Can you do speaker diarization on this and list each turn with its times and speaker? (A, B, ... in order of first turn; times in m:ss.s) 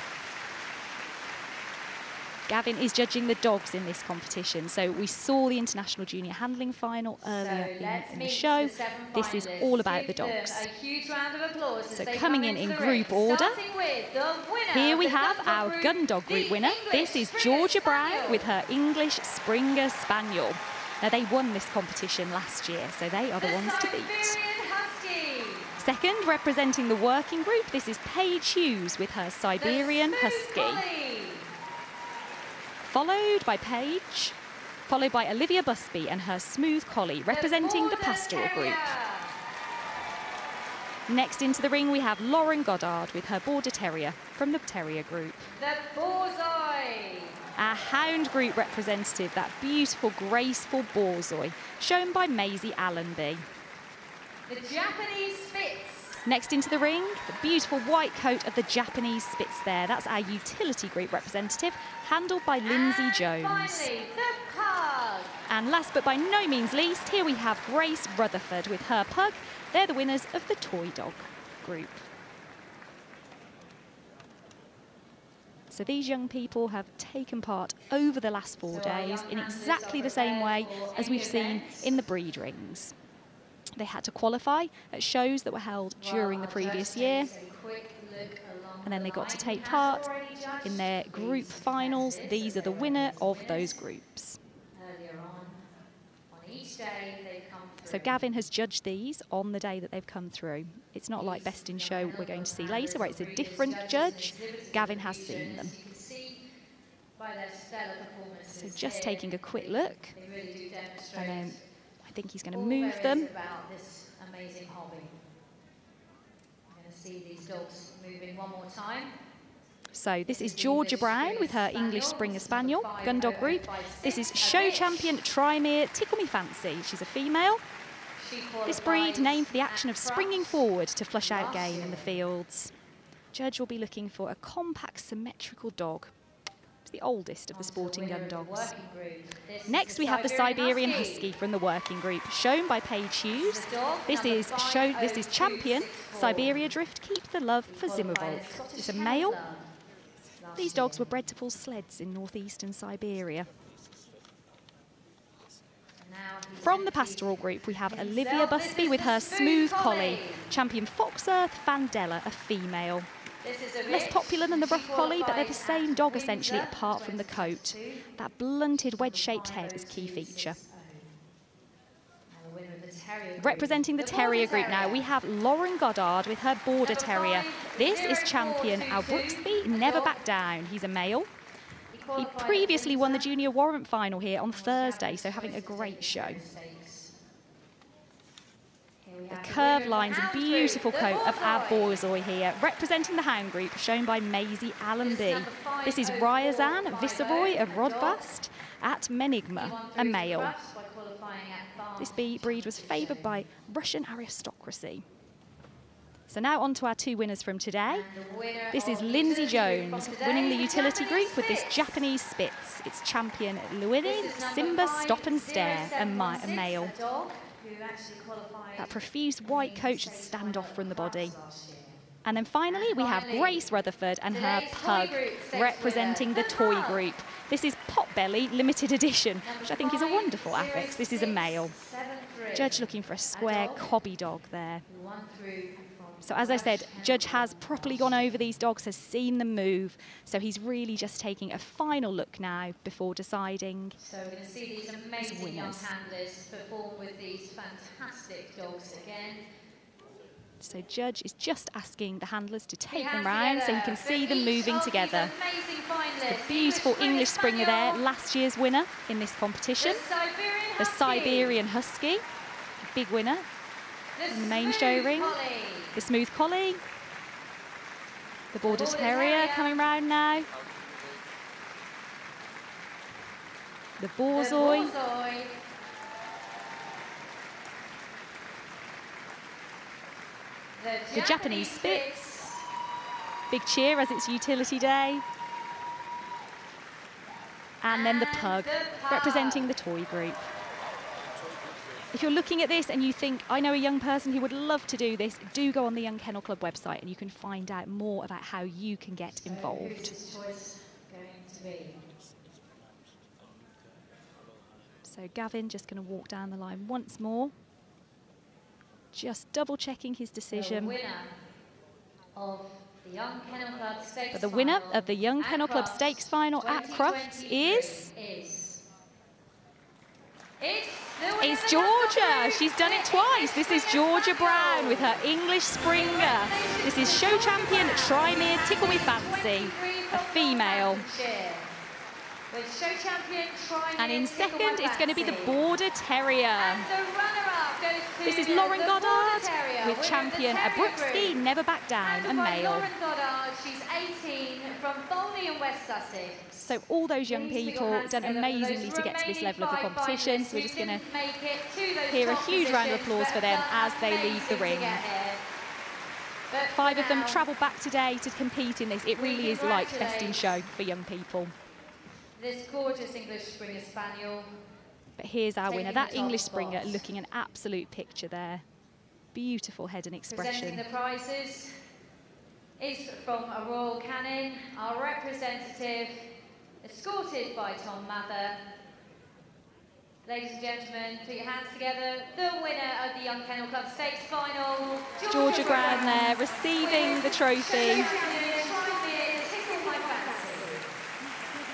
0:02.5-0:10.7 A
0:07.2-0:18.5 B
0:11.9-0:13.6 A
0:14.7-0:24.4 A
0:23.4-0:25.8 B
0:25.8-0:30.8 A
0:29.5-0:31.5 B
0:32.8-0:34.4 A
0:34.9-0:38.9 A
0:37.3-0:39.3 B
0:41.1-0:45.5 A
0:45.5-0:47.4 B
0:47.6-0:53.4 A
0:54.5-0:56.2 B
0:56.2-1:03.9 A
1:02.6-1:05.4 B
1:05.5-1:12.1 A
1:15.7-1:22.9 A
1:18.7-1:21.9 B
1:23.8-1:27.3 A
1:26.0-1:33.8 B
1:28.8-1:30.1 A
1:30.6-1:34.4 A
1:34.7-1:35.6 B
1:36.3-1:38.2 B
1:37.8-1:45.7 A
1:41.1-1:46.4 B
1:47.2-1:51.6 B
1:48.5-1:50.2 A
1:51.1-1:53.3 A
1:52.5-1:55.2 B
1:56.7-1:59.1 B
1:59.9-2:07.6 A
2:00.2-2:05.2 B
2:08.2-2:10.6 B
2:08.6-2:12.7 A
2:11.2-2:12.2 B
2:13.3-2:16.1 A
2:16.8-2:18.7 A
2:17.5-2:21.3 B
2:19.7-2:29.4 A
2:23.4-2:26.7 B
2:27.6-2:29.7 B
2:30.4-2:31.2 B
2:30.6-2:33.5 A
2:36.0-2:40.5 B
2:36.6-2:43.1 A
2:43.4-2:48.1 B
2:43.9-2:50.6 A
2:48.7-2:51.1 B
2:52.3-2:55.0 B
2:53.4-3:01.3 A
2:56.8-3:00.3 B
3:01.9-3:03.3 B
3:02.2-3:06.4 A
3:04.5-3:07.1 B
3:09.0-3:12.0 B
3:09.3-3:20.5 A
3:15.0-3:18.2 B
3:19.5-3:23.5 B
3:22.0-3:25.0 A
3:26.3-3:28.1 A
3:27.8-3:32.0 B
3:28.7-3:36.9 A
3:34.0-3:42.0 B
3:38.8-3:41.3 A
3:42.2-3:51.7 A
3:42.7-3:43.7 B
3:44.3-3:47.0 B
3:49.4-3:53.9 B
3:52.5-3:54.8 A
3:54.9-3:58.4 B
3:56.2-4:04.0 A
4:04.0-4:09.4 B
4:05.2-4:05.9 A
4:10.6-4:15.3 A
4:12.9-4:18.1 B
4:16.2-4:20.0 A
4:19.8-4:21.6 B
4:20.8-4:22.2 A
4:22.9-4:23.4 A
4:24.2-4:26.0 B
4:24.3-4:25.4 A
4:25.9-4:26.8 A
4:28.5-4:30.5 A
4:28.6-4:29.8 B
4:34.0-4:34.9 A
4:34.3-4:35.6 B
4:40.8-4:42.6 B
4:41.1-4:42.4 A
4:43.5-4:45.2 A
4:47.8-4:50.5 A
4:47.9-4:49.7 B
4:52.1-5:00.1 A
4:59.3-5:02.0 B
5:05.0-5:07.5 A
5:09.1-5:11.0 A
5:10.5-5:11.3 B
5:12.3-5:18.8 B
5:14.3-5:18.1 A
5:20.6-5:25.2 B
5:21.4-5:31.0 A
5:25.8-5:31.7 B
5:32.5-5:35.7 B
5:34.0-5:36.9 A
5:36.6-5:41.4 B
5:38.2-5:42.9 A
5:42.0-5:46.7 B
5:46.6-5:51.0 A
5:47.2-5:55.4 B
5:52.1-5:55.0 A
5:56.5-5:57.5 B
5:56.6-6:01.5 A
5:59.1-6:00.6 B
6:02.4-6:04.5 B
6:05.2-6:08.6 A
6:05.6-6:07.0 B
6:09.3-6:10.8 A
6:10.3-6:11.8 B
6:12.8-6:18.6 B
6:20.2-6:30.8 B
6:25.2-6:28.2 A